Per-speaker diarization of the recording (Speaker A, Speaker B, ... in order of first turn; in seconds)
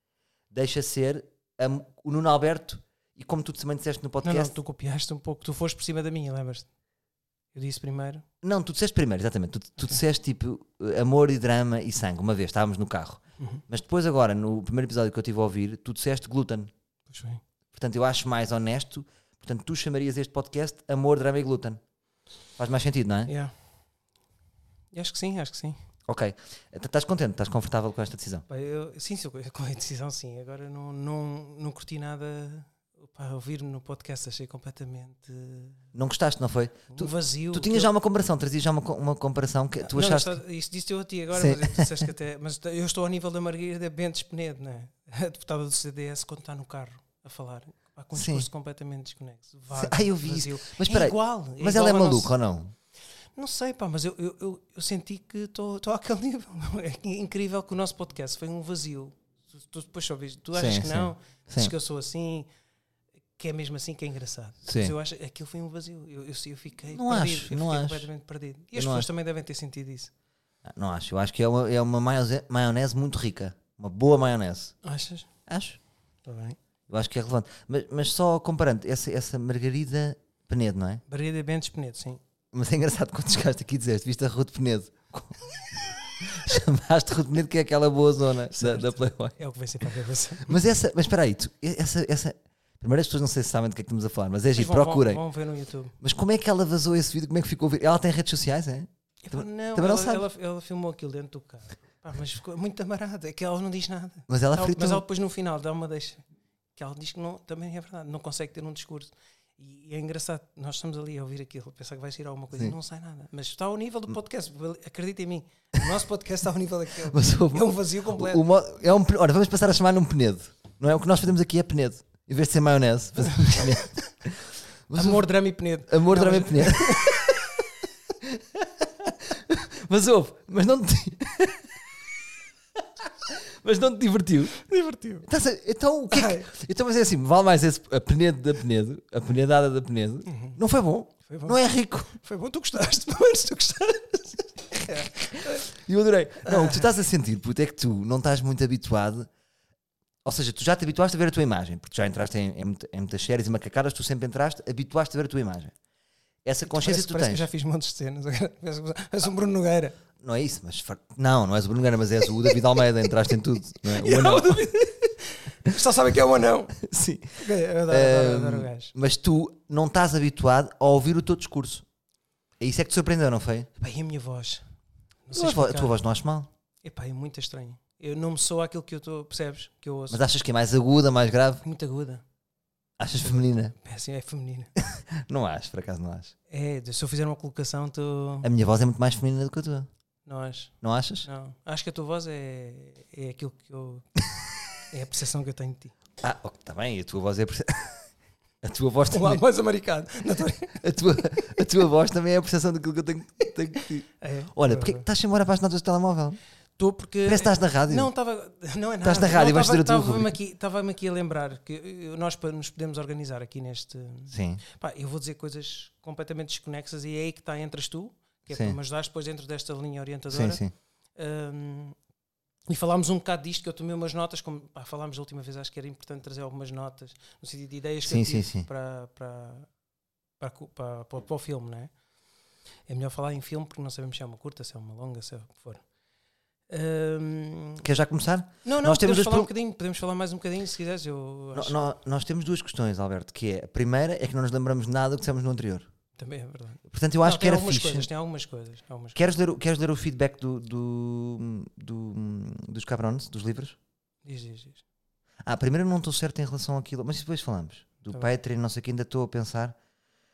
Speaker A: 0.5-4.5, 8.4-16.7, 17.7-21.8, 22.6-23.3, 26.1-28.4, 35.9-40.4, 41.3-42.1, 48.1-48.5, 49.7-52.7, 60.5-61.7, 64.6-64.9, 66.9-68.1, 68.8-69.1, 70.6-74.8, 75.5-75.8, 76.9-81.0, 82.5-89.3, 90.5-95.2, 96.0-100.2, 104.3-105.0, 117.1-125.2, 125.9-127.5, 128.2-131.7, 133.0-134.6, 135.2-142.1, 144.9-149.3, 150.2-155.7, 156.4-157.5, 160.2-164.7, 166.8-171.8, 172.6-173.7, 175.3-176.5, 180.1-181.6, 183.0-183.7, 184.8-186.3, 188.4-189.9, 190.8-191.3, 196.2-198.1, 198.6-199.4, 200.8-206.4, 207.2-208.1, 209.0-210.3, 214.3-214.6, 218.5-218.8, 220.3-220.7, 228.0-228.7, 237.8-239.5, 241.5-245.9, 246.9-248.1, 249.1-253.8, 255.4-259.8
Speaker B: 4.2-6.7, 7.5-8.2, 17.1-17.4, 23.3-23.5, 24.9-25.8, 28.5-35.8, 36.9-37.9, 39.8-52.3, 53.4-62.5, 63.4-70.1, 74.8-75.3, 76.2-76.6, 81.1-82.2, 88.5-90.6, 94.5-96.0, 99.2-106.2, 106.8-118.4, 123.2-124.2, 124.9-127.5, 134.5-135.3, 136.1-136.5, 140.2-140.6, 141.2-141.6, 142.1-145.7, 146.4-146.9, 156.7-160.0, 163.8-166.8, 167.4-168.9, 173.8-174.6, 175.3-176.0, 176.8-180.2, 181.6-182.2, 183.2-184.8, 186.5-188.5, 190.2-194.1, 194.9-195.9, 199.1-200.8, 204.2-205.0, 206.8-220.6, 221.2-222.0, 222.7-229.7, 230.4-231.9, 232.9-235.8, 236.7-237.9, 238.6-241.8, 246.2-249.2, 254.2-254.8